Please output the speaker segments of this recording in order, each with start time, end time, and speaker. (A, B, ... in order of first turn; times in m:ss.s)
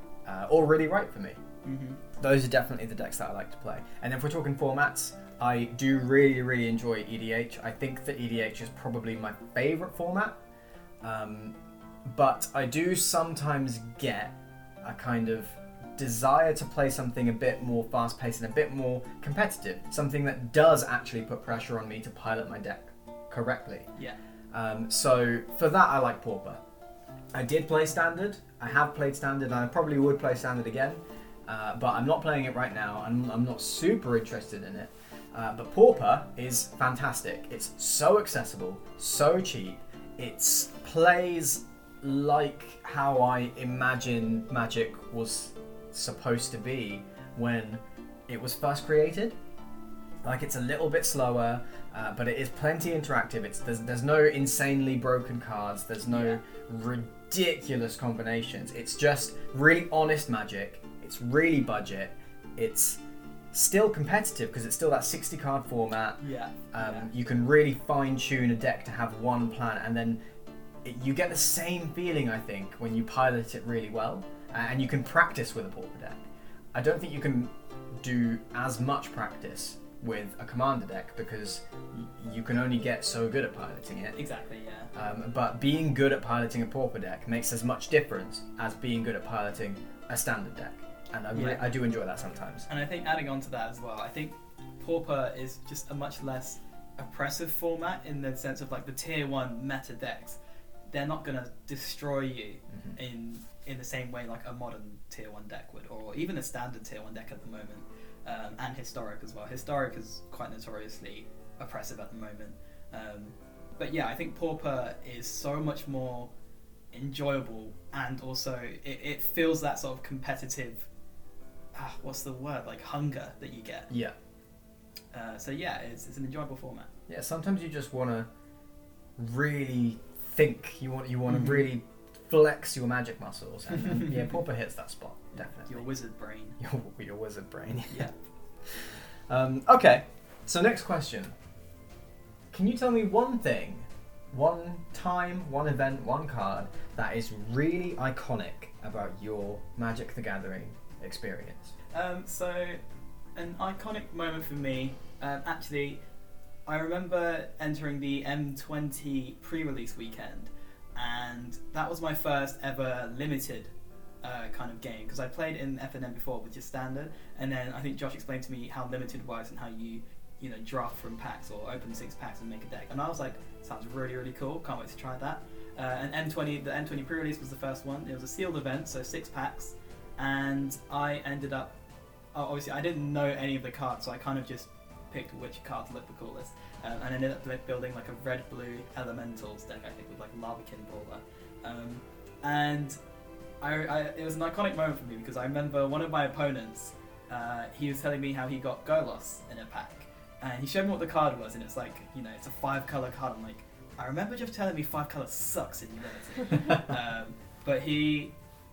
0:00.3-0:01.4 A
0:01.6-0:02.0 B
0:02.2-0:10.4 A
0:11.0-0:11.6 A
0:12.1-0:23.9 A
0:24.5-0:26.6 A
0:27.3-0:49.4 A
0:50.2-1:03.0 A
0:56.1-0:56.4 B
1:03.5-1:06.2 A
1:06.2-1:07.1 B
1:06.7-1:10.2 A
1:10.8-1:16.2 A
1:16.8-1:24.2 A
1:24.2-1:24.9 B
1:25.0-1:32.7 A
1:31.3-1:31.7 B
1:32.7-1:56.3 B
1:56.9-2:00.9 B
2:01.7-2:03.9 B
2:03.9-2:04.2 A
2:05.1-2:06.9 B
2:07.1-2:08.3 A
2:09.2-2:15.9 A
2:11.3-2:11.7 B
2:13.9-2:14.2 B
2:15.4-2:16.6 B
2:16.6-2:18.1 A
2:18.6-2:21.3 A
2:22.5-2:31.7 A
2:31.9-2:32.8 B
2:33.4-2:36.0 B
2:36.7-2:43.7 B
2:44.2-3:01.8 B
3:02.3-3:13.0 B
3:13.6-3:28.3 B